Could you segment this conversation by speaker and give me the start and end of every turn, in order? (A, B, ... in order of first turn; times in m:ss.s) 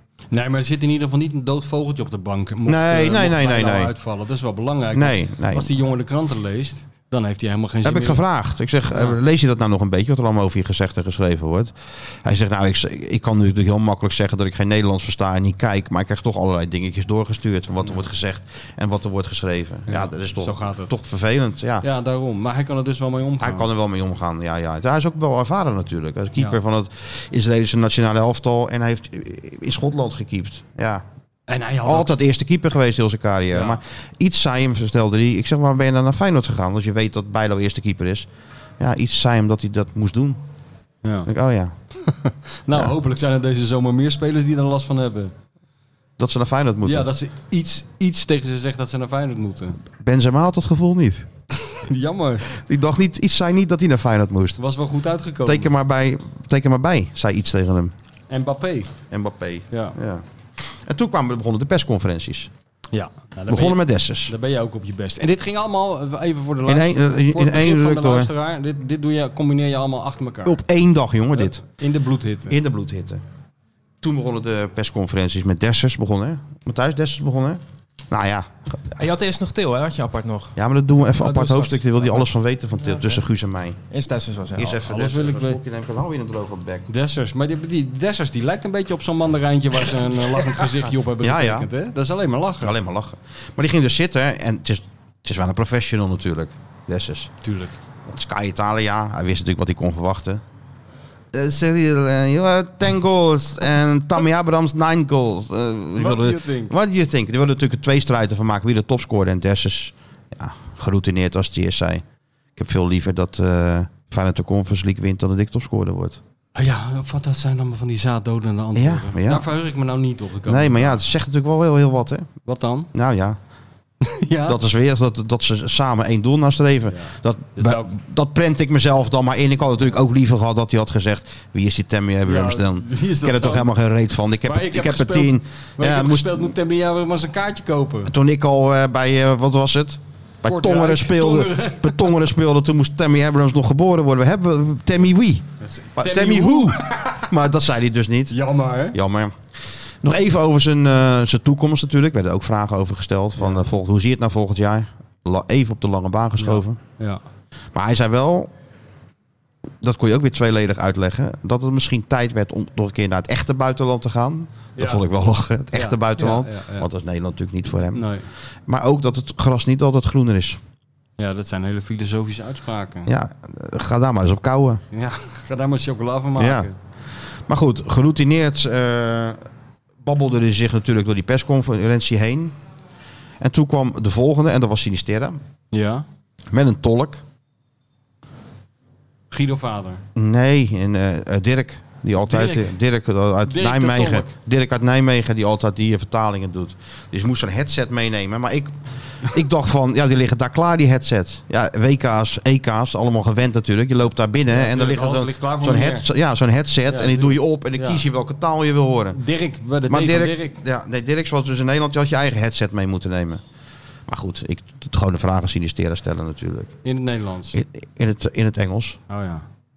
0:00.3-0:08.2 A
0:02.7-0:03.9 B
0:04.9-0:05.8 B
0:07.8-0:21.8 B
0:08.9-0:09.2 A
0:19.9-0:20.9 A
0:21.8-0:23.7 A
0:23.4-0:31.0 B
0:31.5-0:32.1 A
0:31.8-0:38.3 B
0:33.5-0:33.8 A
0:38.8-0:40.4 B
0:41.0-0:41.3 A
0:41.3-0:41.8 B
0:42.0-0:45.3 A
0:46.2-0:47.1 B
0:46.8-0:49.8 A
0:49.9-0:51.3 B
0:51.6-0:52.6 A
0:52.5-0:54.6 B
0:54.6-0:55.7 A
0:55.4-0:57.9 B
0:58.3-0:58.9 A
0:59.1-1:02.5 B
0:59.7-1:00.0 A
1:02.9-1:10.6 A
1:03.5-1:04.3 B
1:06.7-1:08.3 B
1:10.4-1:11.6 B
1:11.3-1:12.6 A
1:12.5-1:13.2 B
1:14.0-1:19.0 B
1:19.0-1:20.5 C
1:20.6-1:23.8 B
1:21.2-1:22.3 C
1:22.8-1:23.2 C
1:23.9-1:24.8 C
1:24.6-1:26.9 B
1:24.8-1:25.6 A
1:26.9-1:32.8 A
1:31.2-1:31.7 B
1:32.6-1:37.3 B
1:37.4-1:37.8 A
1:38.1-1:40.4 B
1:41.3-1:52.0 B
1:46.0-1:46.7 A
1:52.6-1:56.2 B
1:56.6-2:01.0 A
1:58.8-1:59.5 B
2:00.4-2:02.3 B
2:02.4-2:02.9 A
2:02.9-2:03.4 B
2:04.0-2:04.6 A
2:04.5-2:16.5 B
2:06.9-2:07.9 A
2:12.2-2:13.7 A
2:14.4-2:18.1 A
2:18.1-2:28.4 B
2:20.4-2:22.2 A
2:25.6-2:27.2 A
2:28.3-2:29.0 A
2:28.9-2:36.8 B
2:33.4-2:33.7 A
2:36.4-2:37.2 A
2:37.7-2:38.5 B
2:39.8-2:48.1 B
2:44.8-2:45.0 A
2:45.7-2:46.9 A
2:47.9-2:48.3 A
2:48.7-2:50.6 B
2:51.2-2:53.1 A
2:53.1-2:54.8 B
2:54.9-2:56.8 A
2:56.4-2:56.7 B
2:57.5-2:59.4 B
3:00.0-3:02.6 B
3:03.4-3:05.4 B
3:05.7-3:06.1 A
3:06.5-3:07.2 B
3:09.3-3:10.0 A
3:10.2-3:29.2 B
3:12.2-3:12.8 A
3:13.4-3:14.3 A
3:24.5-3:26.1 A
3:26.9-3:28.0 A
3:29.1-3:30.6 A
3:29.9-3:33.4 B
3:34.1-3:36.8 B
3:36.8-3:37.6 A
3:37.5-3:39.0 B
3:39.1-3:39.4 A